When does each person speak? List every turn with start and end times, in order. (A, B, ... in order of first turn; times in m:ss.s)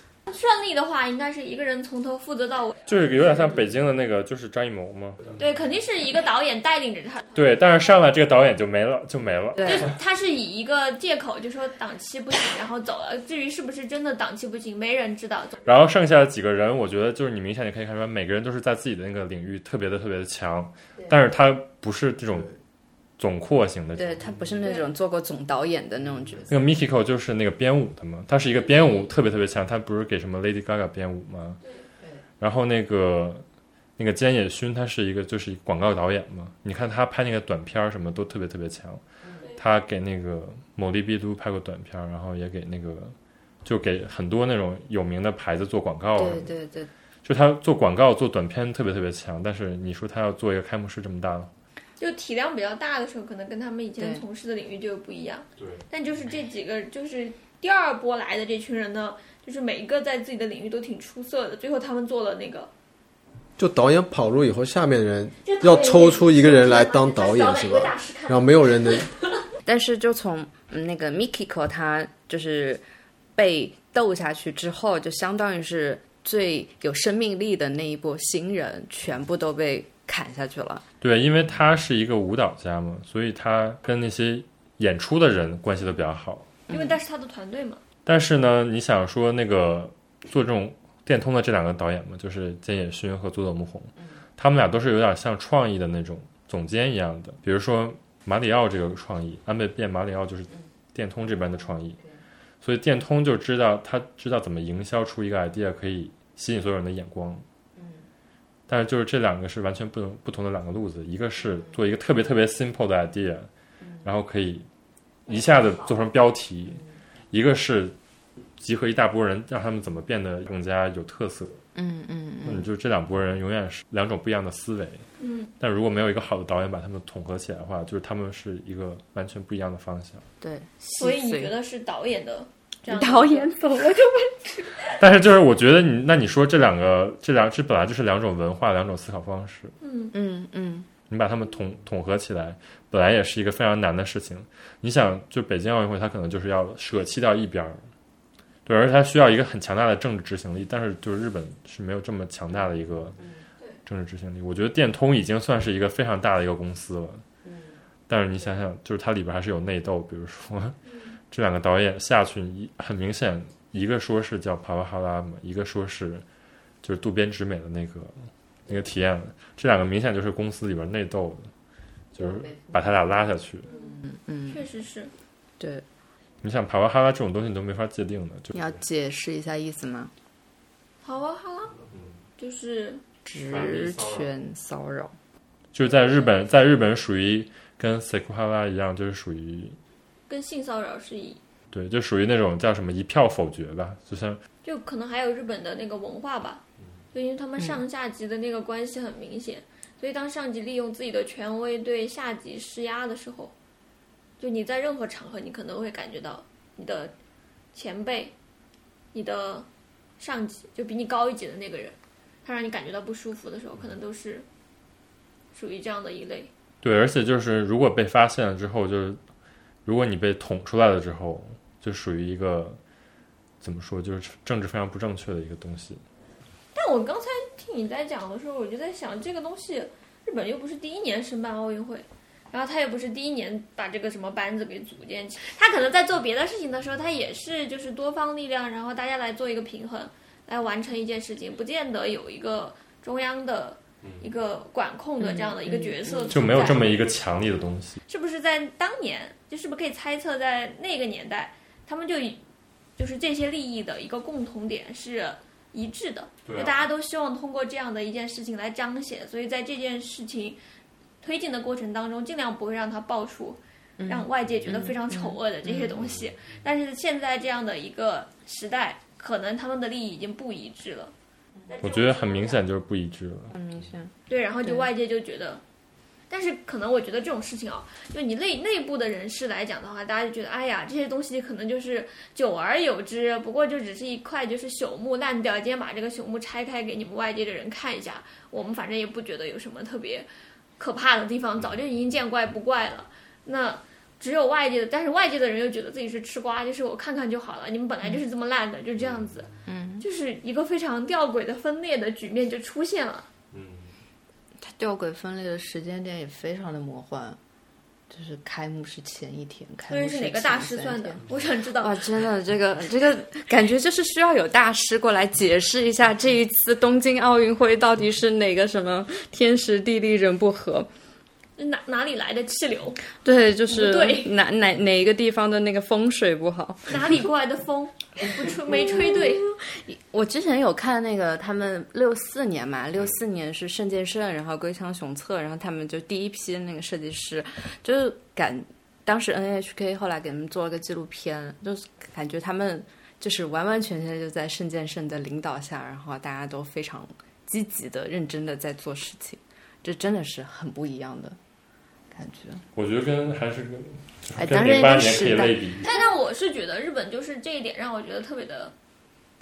0:00.3-0:02.8 A
0:02.9-0:05.3 B
0:05.4-0:07.4 A
0:07.3-0:09.9 B
0:09.6-0:09.9 C
0:09.6-0:15.5 A
0:15.6-0:22.5 B
0:23.2-0:24.3 B
0:24.0-0:26.6 C
0:26.5-0:31.6 B
0:32.4-0:33.4 B
0:34.0-0:39.0 B
0:39.6-0:46.5 B
0:46.2-0:46.9 C
0:47.2-0:51.5 B
0:52.0-1:02.7 A
0:54.0-0:54.2 C
0:55.6-0:55.8 B
1:03.6-1:09.1 D
1:05.4-1:09.1 A
1:09.6-1:12.8 C
1:13.4-1:20.8 C
1:21.0-1:26.5 B
1:26.7-1:26.9 C
1:26.7-1:27.8 A
1:28.0-1:42.0 B
1:42.6-1:47.4 B
1:47.8-1:48.0 C
1:48.7-1:53.5 B
1:54.0-1:54.6 B
1:55.3-1:58.0 B
1:58.6-2:01.6 B
2:01.7-2:02.7 C
2:02.4-2:05.0 B
2:05.2-2:05.5 A
2:05.6-2:10.2 B
2:10.4-2:11.5 C
2:11.0-2:14.9 A
2:12.9-2:14.1 C
2:14.9-2:19.7 B
2:19.8-2:20.1 A
2:20.1-2:20.9 C
2:21.1-2:27.8 B
2:28.6-2:33.2 B
2:33.8-2:37.2 B
2:37.4-2:37.8 C
2:38.1-2:40.8 B
2:40.9-2:41.1 A
2:41.3-2:46.2 B
2:46.8-2:48.1 B
2:48.7-2:51.5 B
2:52.1-2:53.7 B
2:52.2-2:52.9 C
2:53.6-2:54.6 C
2:53.6-2:55.1 A
2:55.6-2:55.8 C
2:56.4-2:58.8 B
2:58.5-3:00.1 C
3:01.0-3:01.8 A
3:02.4-3:03.0 A
3:03.2-3:05.1 C
3:03.4-3:04.3 B
3:05.7-3:09.8 B
3:10.3-3:11.4 A
3:11.7-3:14.4 B
3:14.6-3:16.6 A
3:17.1-3:23.5 A
3:24.4-3:27.1 A
3:27.7-3:28.3 A
3:29.1-3:29.7 A
3:30.2-3:34.4 A
3:35.5-3:36.5 A
3:36.8-3:39.2 B
3:39.8-3:42.8 B
3:43.6-3:46.0 B
3:46.7-4:06.9 A
4:04.0-4:04.3 B
4:05.2-4:06.3 C
4:06.3-4:08.0 B
4:08.1-4:12.4 A
4:13.0-4:20.6 A
4:16.4-4:16.9 B
4:21.2-4:31.1 A
4:24.0-4:25.9 C
4:26.0-4:26.3 B
4:31.7-4:32.6 A
4:31.8-4:33.6 B
4:33.5-4:34.9 C
4:34.3-4:35.6 A
4:36.3-4:50.3 A
4:50.8-4:59.5 A
4:59.0-4:59.3 B
4:59.7-5:00.0 C
5:00.0-5:03.2 A
5:03.5-5:03.9 B
5:04.6-5:07.4 C
5:08.1-5:11.2 C
5:09.9-5:12.0 A
5:11.8-5:20.9 C
5:21.6-5:23.0 A
5:23.2-5:27.2 C
5:23.7-5:24.3 A
5:26.9-5:29.5 A
5:28.7-5:51.4 C
5:52.1-5:52.6 C
5:52.7-5:55.8 B
5:54.4-5:55.8 C
5:55.8-5:58.7 A